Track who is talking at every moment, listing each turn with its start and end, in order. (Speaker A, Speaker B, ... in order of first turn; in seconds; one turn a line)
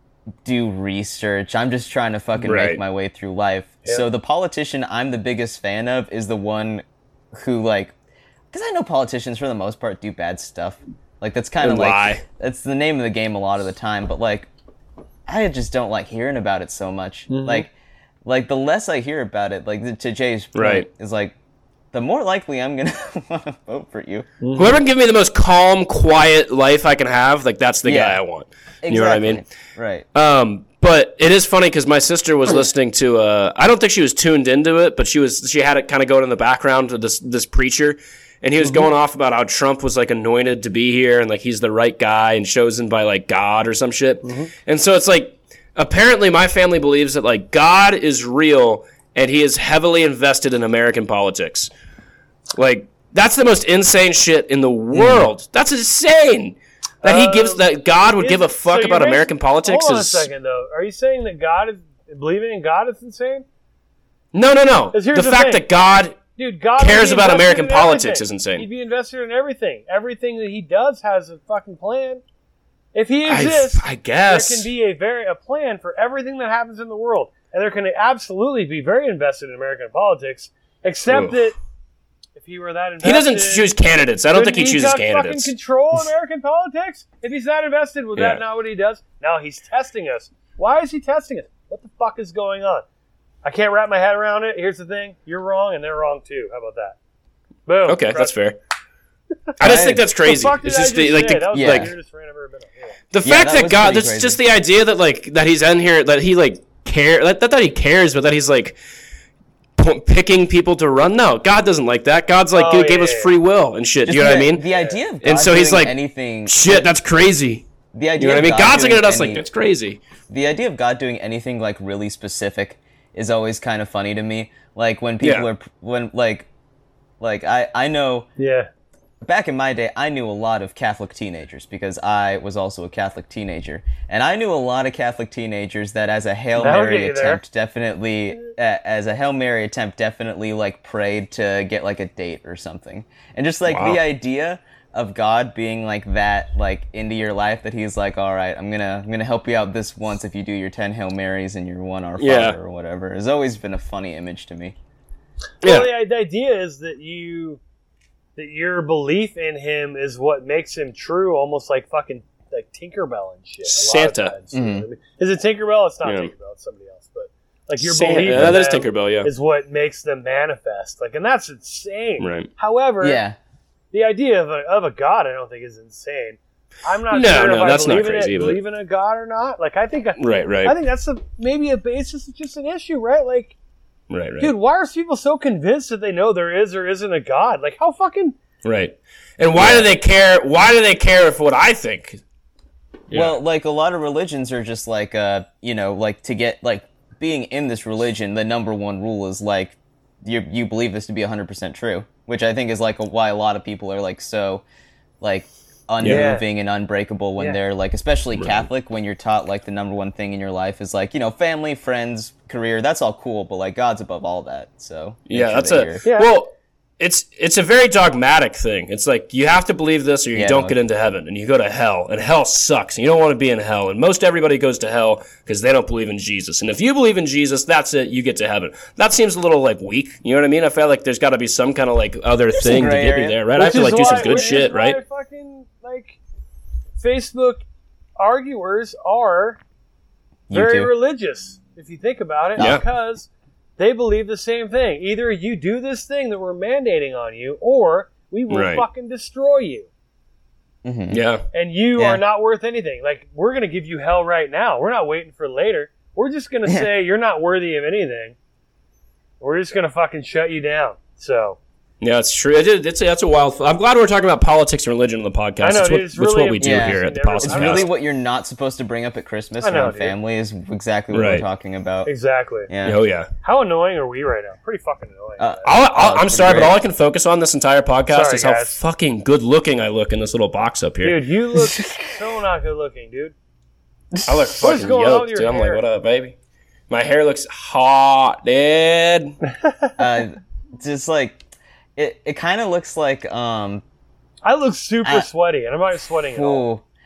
Speaker A: 0.5-7.9
Speaker B: 2.4-2.8
Speaker A: 8.5-14.5
Speaker B: 11.6-12.2
Speaker A: 15.3-17.7
Speaker C: 17.3-17.7
Speaker A: 18.2-21.4
Speaker B: 20.6-20.9
Speaker A: 21.9-24.3
Speaker C: 24.4-24.8
Speaker B: 24.6-29.4
Speaker A: 27.9-28.2
Speaker A: 28.8-30.1
Speaker B: 30.1-51.7
Speaker C: 44.2-44.5
Speaker B: 52.5-60.3
Speaker A: 54.9-55.3
Speaker C: 57.0-63.5
Speaker B: 64.3-66.2
Speaker C: 64.9-65.7
Speaker C: 66.4-72.2
Speaker B: 66.8-68.7
Speaker C: 72.9-81.6
Speaker B: 73.3-74.7
Speaker B: 81.1-81.4
Speaker C: 82.4-83.7
Speaker B: 83.0-85.5
Speaker C: 84.3-92.8
Speaker B: 88.2-88.4
Speaker C: 93.4-97.0
Speaker C: 97.7-98.3
Speaker B: 97.9-98.6
Speaker B: 99.6-101.9
Speaker A: 99.6-100.0
Speaker C: 100.2-103.0
Speaker A: 101.5-101.9
Speaker B: 103.1-108.8
Speaker A: 103.2-104.4
Speaker B: 109.8-114.6
Speaker C: 112.5-113.3
Speaker A: 114.0-116.9
Speaker B: 115.2-117.6
Speaker A: 117.9-119.4
Speaker B: 118.2-120.0
Speaker A: 120.3-126.5
Speaker B: 125.2-125.5
Speaker A: 127.2-128.3
Speaker C: 128.4-128.7
Speaker A: 129.2-154.8
Speaker C: 136.6-137.4
Speaker B: 143.7-144.0
Speaker B: 152.2-152.6
Speaker B: 155.6-155.9
Speaker C: 155.6-157.6
Speaker C: 158.4-173.2
Speaker B: 163.7-164.3
Speaker A: 164.5-164.9
Speaker B: 166.1-166.3
Speaker B: 167.8-169.3
Speaker A: 168.3-168.6
Speaker B: 172.2-172.5
Speaker A: 173.0-173.4
Speaker C: 173.9-183.6
Speaker B: 177.1-178.6
Speaker B: 180.2-180.8
Speaker B: 184.1-184.5
Speaker C: 184.4-188.4
Speaker B: 188.6-192.2
Speaker A: 189.6-189.9
Speaker B: 193.1-193.4
Speaker A: 193.1-204.6
Speaker A: 205.2-216.0
Speaker B: 206.0-206.3
Speaker C: 206.0-206.4
Speaker B: 208.3-208.7
Speaker B: 215.3-235.0
Speaker C: 216.0-216.3
Speaker A: 220.3-220.8
Speaker A: 232.5-234.7
Speaker C: 233.6-236.2
Speaker C: 237.0-237.6
Speaker C: 238.2-239.6
Speaker A: 240.5-240.9
Speaker C: 240.5-249.9
Speaker B: 242.6-242.8
Speaker B: 248.5-248.8
Speaker A: 250.8-251.2
Speaker B: 251.1-251.4
Speaker C: 251.5-258.4
Speaker A: 252.0-252.2
Speaker C: 259.4-261.6
Speaker B: 262.0-267.9
Speaker C: 265.6-267.9
Speaker A: 266.6-272.1
Speaker C: 269.6-270.1
Speaker B: 271.1-271.4
Speaker C: 272.1-272.7
Speaker A: 272.7-273.0
Speaker B: 272.8-273.3
Speaker C: 273.4-275.7
Speaker A: 275.4-276.8
Speaker B: 275.6-281.2
Speaker C: 278.1-278.8
Speaker C: 281.0-283.3
Speaker B: 284.3-286.4
Speaker C: 284.6-285.8
Speaker B: 286.9-289.4
Speaker A: 290.0-291.4
Speaker A: 292.0-293.8
Speaker C: 294.4-296.7
Speaker A: 296.3-296.8